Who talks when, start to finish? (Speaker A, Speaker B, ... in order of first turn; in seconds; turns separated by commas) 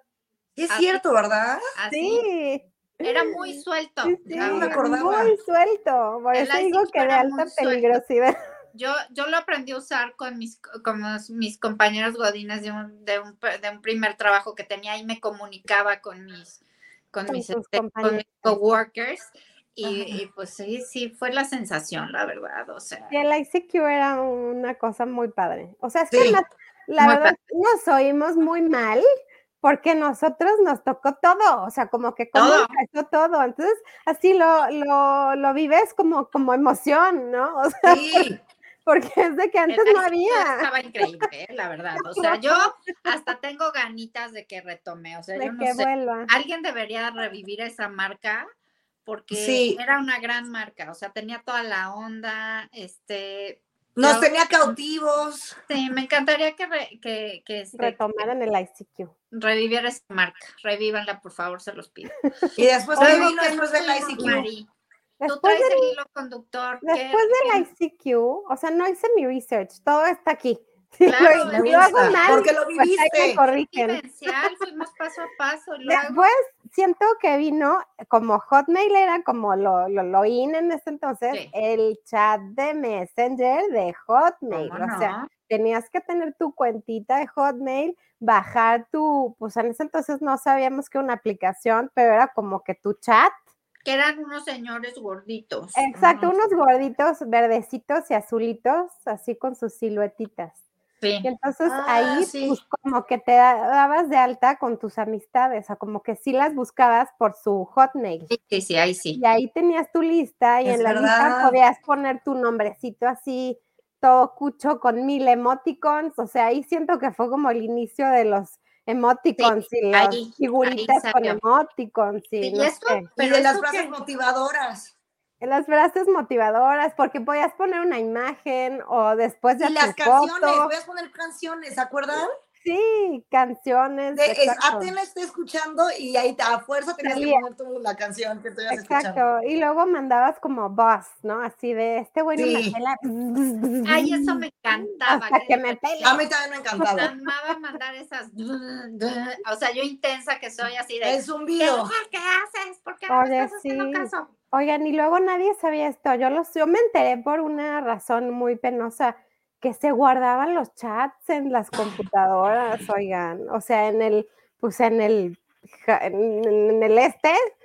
Speaker A: 0.6-1.6, Speaker B: 0.7-1.0, Speaker B: 1.8-2.2, Speaker C: 1.9-3.4, Speaker B: 3.0-5.0, Speaker C: 4.0-8.3, Speaker A: 4.3-5.3, Speaker B: 6.3-8.0, Speaker B: 8.7-16.6, Speaker B: 17.1-23.1, Speaker C: 17.3-18.6, Speaker A: 19.9-20.2, Speaker C: 23.1-29.1, Speaker A: 26.1-26.4, Speaker B: 27.0-27.3, Speaker C: 29.6-38.3, Speaker B: 32.4-32.7, Speaker A: 37.9-38.4, Speaker C: 38.9-41.3, Speaker B: 39.7-48.5, Speaker C: 42.0-42.7, Speaker C: 45.4-46.3, Speaker B: 49.1-54.8, Speaker A: 49.3-49.8, Speaker A: 54.0-55.6, Speaker B: 55.7-58.3, Speaker C: 57.8-59.1, Speaker B: 59.3-62.1, Speaker A: 62.6-64.5, Speaker C: 63.0-63.3, Speaker B: 63.0-64.7, Speaker C: 64.2-64.5, Speaker C: 65.2-66.0, Speaker B: 65.3-67.7, Speaker C: 66.8-74.5, Speaker B: 71.0-72.5, Speaker A: 71.5-73.4, Speaker B: 73.7-76.2, Speaker C: 75.9-93.4, Speaker B: 84.5-85.3, Speaker B: 93.9-95.8, Speaker C: 95.8-100.6, Speaker A: 96.0-96.3, Speaker B: 101.0-101.3, Speaker C: 101.2-108.3, Speaker A: 101.7-102.6, Speaker B: 108.3-109.2, Speaker C: 109.2-123.0, Speaker A: 110.7-111.6, Speaker B: 119.4-121.4, Speaker B: 122.4-123.9, Speaker A: 123.2-124.9, Speaker C: 125.4-130.7, Speaker A: 129.6-132.3, Speaker C: 132.6-134.9, Speaker A: 134.1-139.2, Speaker C: 137.0-137.4, Speaker C: 138.7-146.2, Speaker A: 142.4-142.8, Speaker B: 143.8-146.2, Speaker A: 146.0-147.1, Speaker C: 146.8-147.1, Speaker B: 147.0-154.3, Speaker A: 151.0-151.9, Speaker C: 153.1-167.4